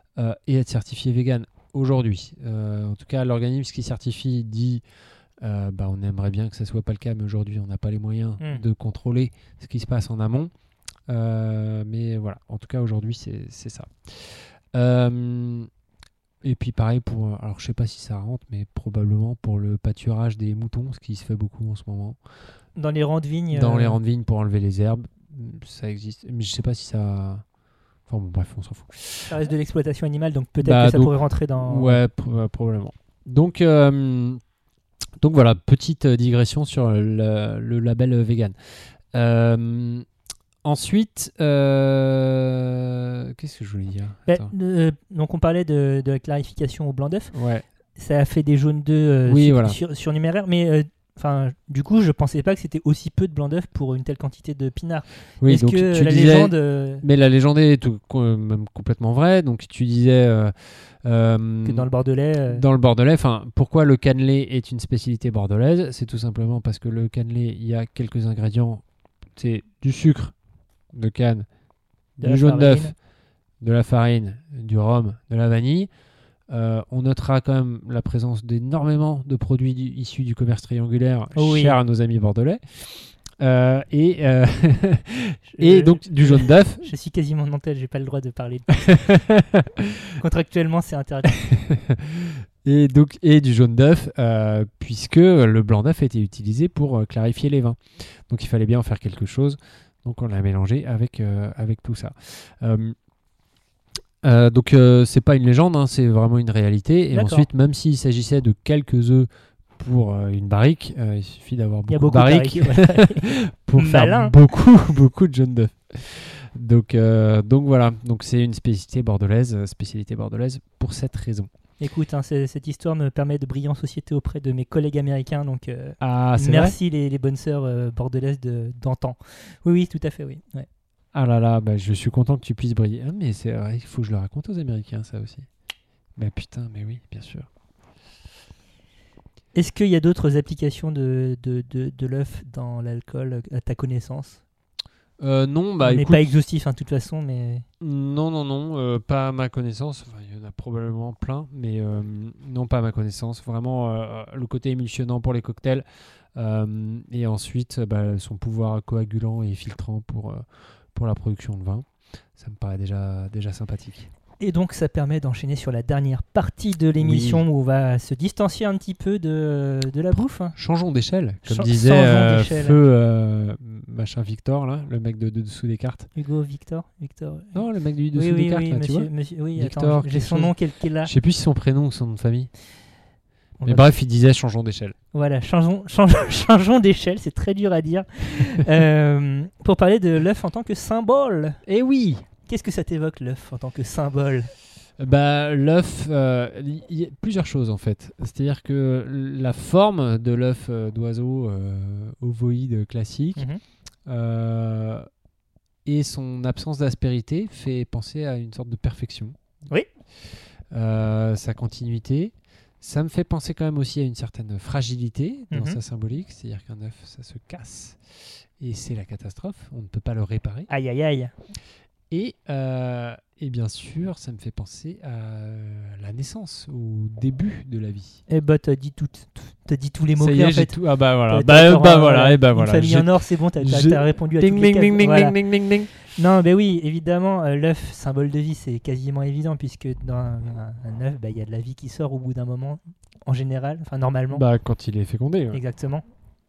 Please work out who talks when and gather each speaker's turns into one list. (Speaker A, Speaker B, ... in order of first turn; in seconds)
Speaker A: 0.2-4.8, 5.4-10.5, 11.1-15.7, 16.4-22.2, 23.5-27.4, 28.1-29.3, 30.6-34.4, 35.2-38.5, 39.1-40.0, 40.6-44.5, 47.3-47.6, 49.3-49.8, 55.4-60.5, 61.0-61.9, 62.5-68.8, 69.4-70.3, 70.9-71.5, 72.2-72.9, 73.6-75.9, 76.5-86.9, 88.8-89.9, 91.3-103.0, 104.2-121.5, 126.0-126.8, 131.1-135.5, 136.2-137.5, 145.2-146.3, 147.8-155.8, 156.4-161.8, 162.4-164.1, 167.0-167.4, 170.5-176.1, 177.5-182.5, 183.7-184.9, 191.7-192.3, 195.0-203.5, 204.1-205.1, 205.8-209.4, 210.7-218.0, 218.6-220.7, 222.1-228.2, 230.2-235.9, 244.3-245.6
Speaker B: 22.8-24.0, 29.3-32.0, 44.3-47.3, 48.0-57.0, 61.7-62.6, 72.2-72.9, 81.4-81.8, 85.6-89.1, 90.2-91.4, 107.1-107.5, 111.9-114.3, 121.8-130.7, 139.6-144.4, 145.8-147.7, 164.4-170.5, 171.5-172.8, 176.2-177.6, 178.2-181.1, 183.6-183.9, 185.1-191.6, 192.5-194.5, 203.4-203.6, 215.5-215.8, 220.7-221.3, 228.3-230.8, 231.3-235.4, 236.1-244.4, 245.5-246.0